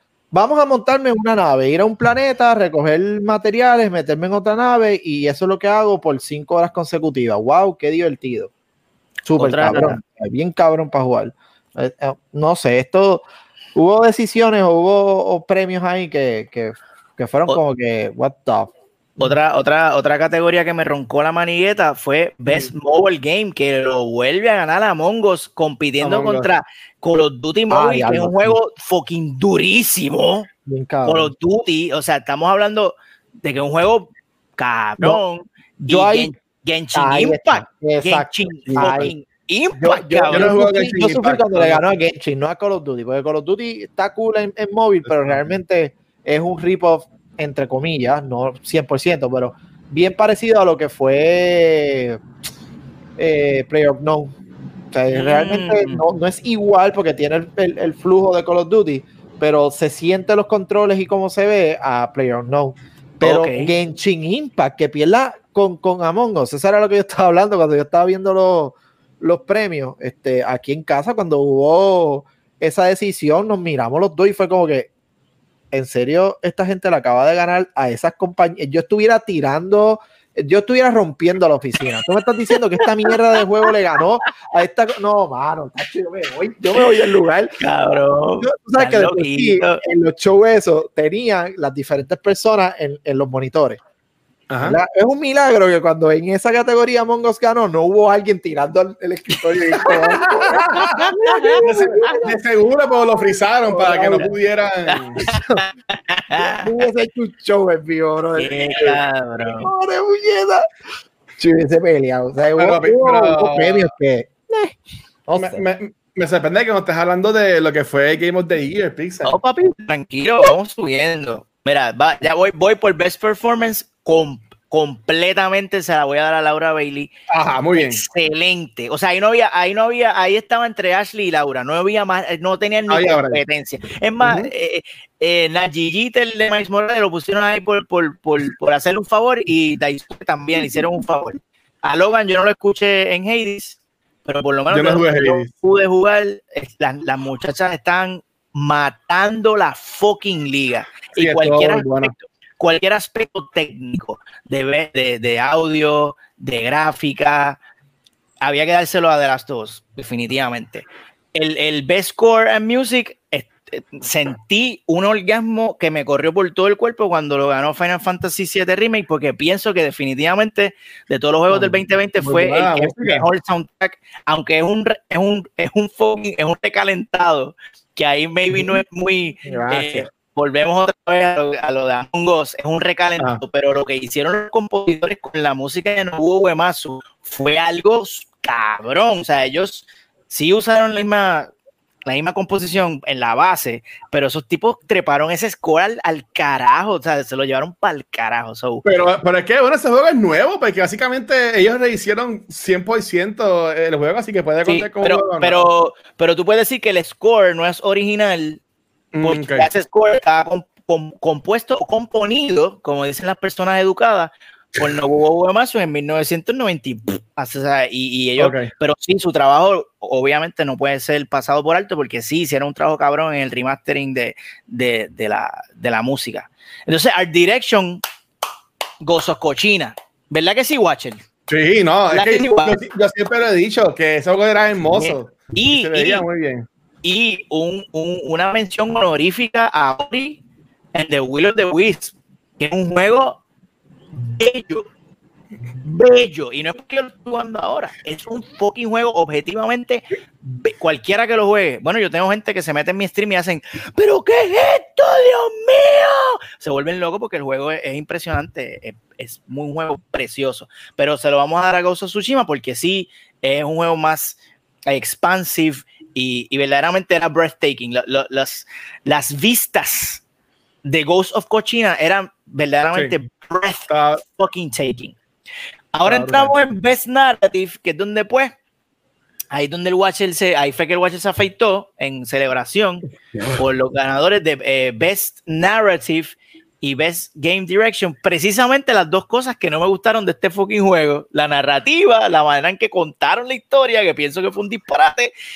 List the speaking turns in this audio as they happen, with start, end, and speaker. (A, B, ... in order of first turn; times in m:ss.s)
0:00.3-0:08.5 A
0:09.3-0:19.3 A
0:09.4-0:10.0 B
0:19.2-0:30.5 B
0:26.0-0:26.5 C
0:27.7-0:28.6 A
0:30.7-0:31.3 A
0:31.0-0:40.6 B
0:35.8-0:36.3 A
0:37.0-0:39.1 A
0:38.7-0:39.1 C
0:39.8-0:52.2 A
0:40.3-0:41.8 C
0:53.2-0:54.4 A
0:54.9-1:14.9 A
0:55.1-0:56.1 B
1:03.2-1:03.7 B
1:15.7-1:27.6 A
1:27.6-1:29.8 B
1:28.4-1:33.8 A
1:34.5-1:34.8 C
1:34.6-1:42.4 A
1:39.4-1:45.2 C
1:41.1-1:42.1 B
1:43.7-1:44.3 A
1:44.9-1:46.9 B
1:46.4-1:49.0 A
1:48.4-1:49.7 B
1:49.5-1:50.7 A
1:51.4-1:55.6 A
1:52.6-1:53.9 C
1:55.4-1:59.4 C
1:59.2-2:07.1 B
2:07.3-2:08.0 C
2:07.8-2:37.6 B
2:12.9-2:13.4 C
2:14.2-2:14.5 C
2:24.7-2:25.5 C
2:31.2-2:32.1 C
2:38.4-3:11.5 B
2:52.2-2:53.3 C
2:59.5-3:00.1 A
3:12.1-3:18.8 B
3:18.8-3:25.6 C
3:24.7-3:28.6 B
3:29.1-3:29.7 C
3:29.2-3:48.0 B
3:38.4-3:38.7 C
3:49.0-3:51.2 B
3:51.5-3:56.7 C
3:52.1-3:52.8 B
3:54.9-3:56.2 B
3:57.0-4:00.4 B
4:00.9-4:03.4 B
4:04.4-4:04.9 B
4:05.8-4:30.2 B
4:30.8-4:35.2 B
4:33.9-4:34.2 C
4:36.0-4:38.5 B
4:36.0-4:36.5 C
4:39.5-4:55.3 B